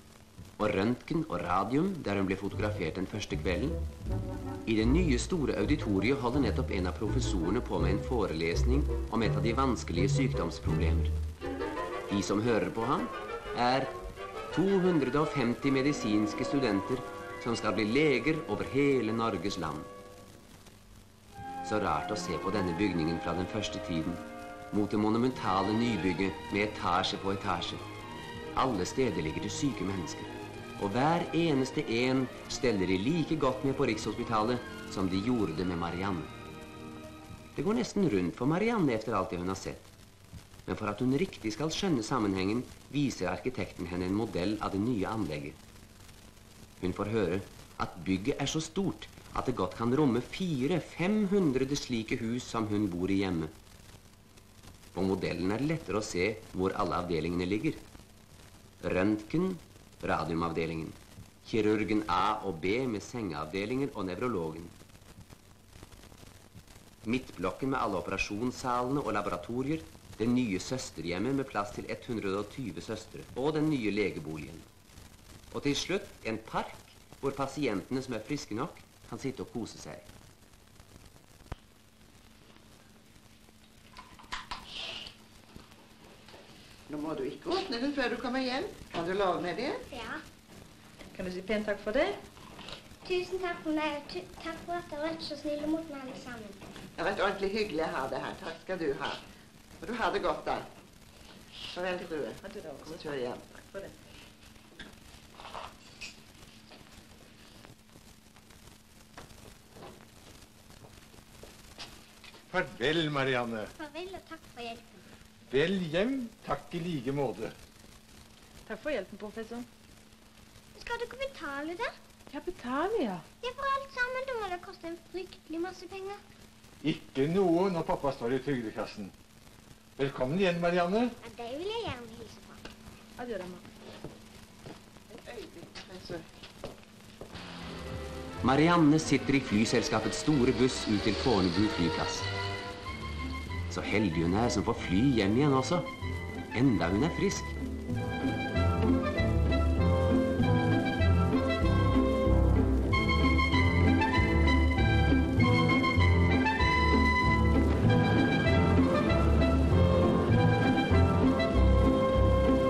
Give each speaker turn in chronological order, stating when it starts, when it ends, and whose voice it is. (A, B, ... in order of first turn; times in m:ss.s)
0:00.6-0:03.8 A
0:04.6-0:11.1 A
0:12.1-0:13.9 A
0:14.5-0:19.9 A
0:21.6-0:27.8 A
0:28.5-0:36.3 A
0:37.6-0:39.9 A
0:40.6-0:45.6 A
0:46.8-0:53.5 A
0:54.9-0:57.8 A
0:58.8-1:04.7 A
1:07.0-1:14.7 A
1:15.5-1:20.1 A
1:26.9-1:29.8 B
1:29.9-1:30.2 C
1:31.1-1:32.2 D
1:33.0-1:36.6 C
1:37.0-1:39.2 B
1:39.8-1:40.6 B
1:41.7-1:43.5 B
1:42.4-1:43.9 D
1:52.5-1:53.7 E
1:53.8-1:55.0 C
1:55.5-1:57.5 E
1:58.6-1:59.7 D
2:00.7-2:01.9 C
2:02.3-2:03.2 D
2:03.4-2:06.2 C
2:06.8-2:09.1 E
2:10.0-2:11.2 E
2:11.2-2:12.6 C
2:13.2-2:13.6 D
2:15.1-2:16.2 B
2:18.4-2:22.3 A
2:23.7-2:25.9 A
2:26.5-2:27.6 A